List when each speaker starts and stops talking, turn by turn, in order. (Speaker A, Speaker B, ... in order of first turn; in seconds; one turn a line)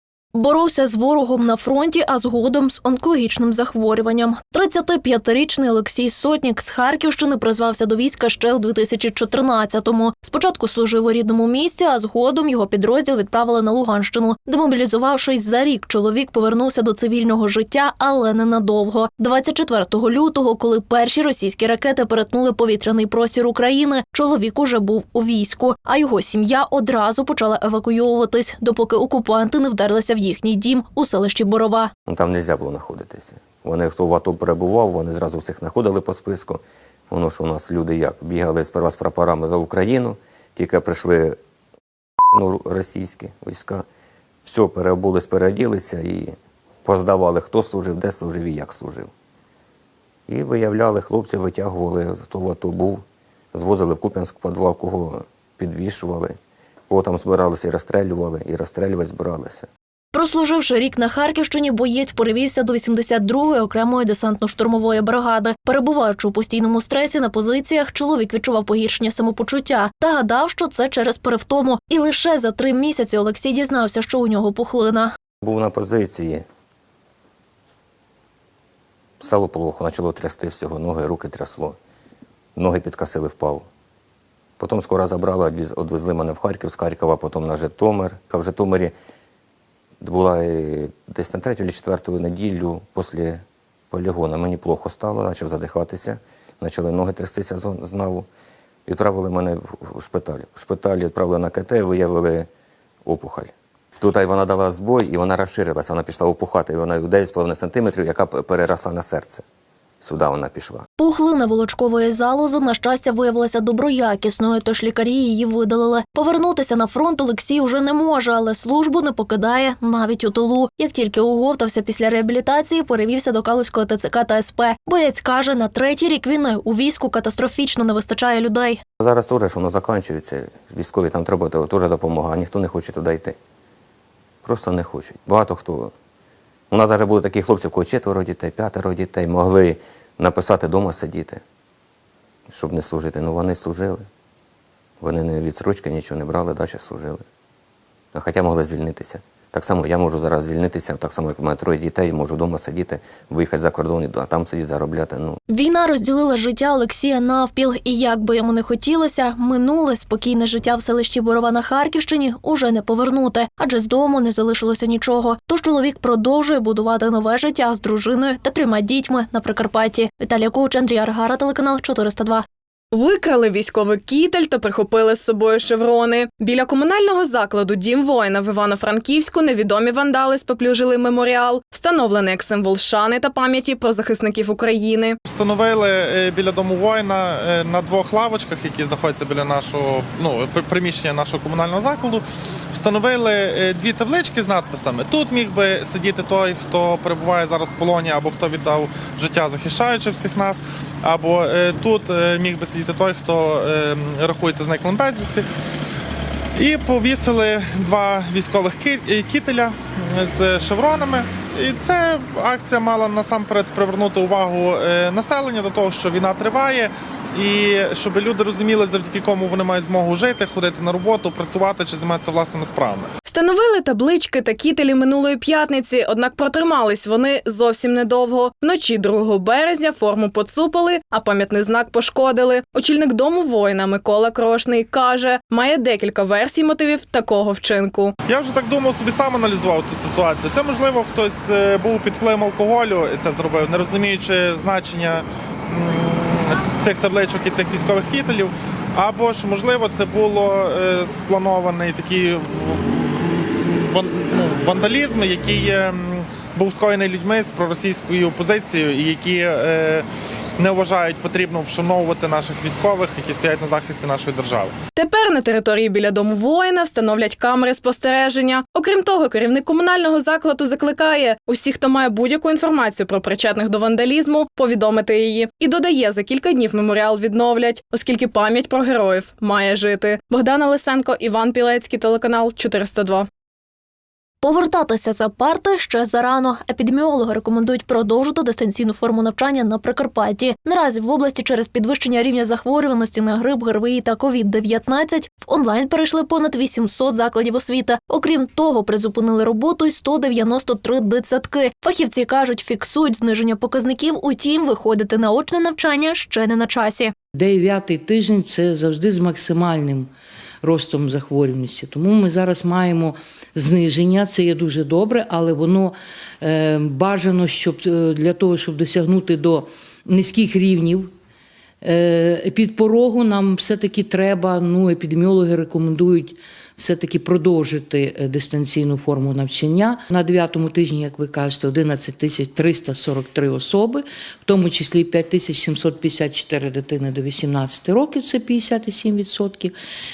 Speaker A: 0.3-31.9
Speaker B: 32.1-41.4
Speaker B: 42.3-43.9
Speaker B: 44.5-49.1
Speaker B: 50.3-56.4
Speaker B: 56.9-59.7
Speaker A: 60.1-75.1
Speaker B: 75.4-76.5
Speaker B: 79.2-81.8
Speaker B: 82.6-83.7
Speaker B: 84.6-89.0
Speaker B: 90.0-98.3
Speaker B: 98.9-102.5
Speaker B: 103.1-109.4
Speaker B: 110.0-110.8
Speaker A: 111.0-128.8
Speaker B: 129.0-133.4
Speaker B: 134.4-135.9
Speaker B: 136.7-141.4
Speaker B: 142.5-144.1
Speaker B: 145.0-147.2
Speaker B: 148.1-155.4
Speaker A: 155.5-172.4
Speaker C: 172.9-185.2
Speaker D: 185.3-205.5
Speaker D: 206.6-223.1
Speaker C: 223.3-238.2
Speaker D: 238.3-260.1
Speaker D: 260.6-264.8
Speaker C: 265.0-283.3
Speaker A: 284.4-307.1
Speaker E: 307.4-310.1
Speaker E: 310.6-321.1
Speaker E: 321.8-339.7